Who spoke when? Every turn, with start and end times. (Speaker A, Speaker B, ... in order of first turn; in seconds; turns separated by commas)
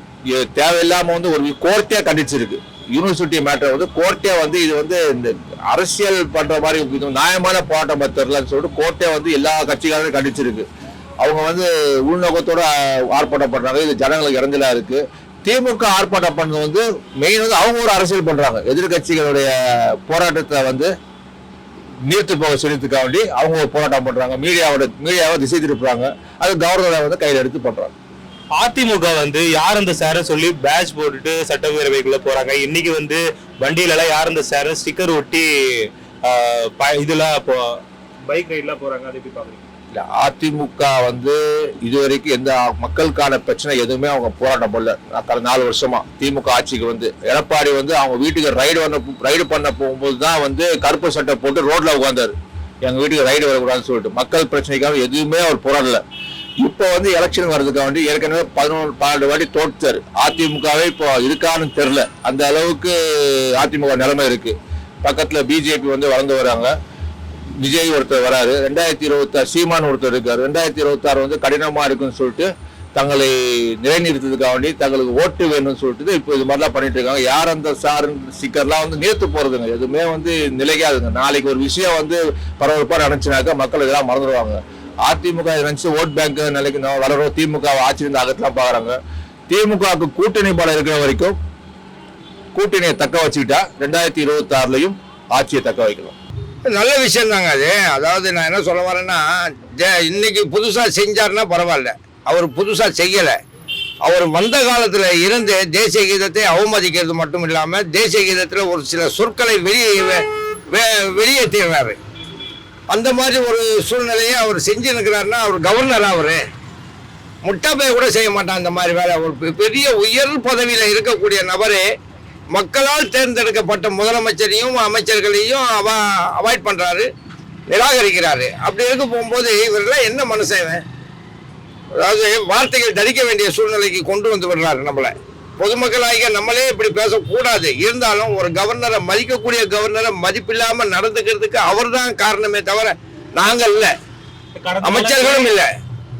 Speaker A: 0.3-10.6, Speaker A: 11.2-19.5, Speaker A: 20.1-20.9, Speaker A: 22.1-27.9, Speaker B: 28.5-37.7, Speaker B: 38.3-39.6, Speaker A: 39.9-56.0, Speaker A: 56.6-62.9, Speaker A: 63.6-66.7, Speaker A: 67.6-88.9, Speaker A: 89.5-91.3, Speaker A: 92.5-96.2, Speaker C: 96.7-103.4, Speaker C: 104.0-112.0, Speaker C: 112.9-116.4, Speaker C: 117.4-121.9, Speaker C: 122.5-127.1, Speaker C: 127.7-130.8, Speaker C: 131.9-143.9, Speaker B: 144.6-145.6, Speaker C: 144.8-145.7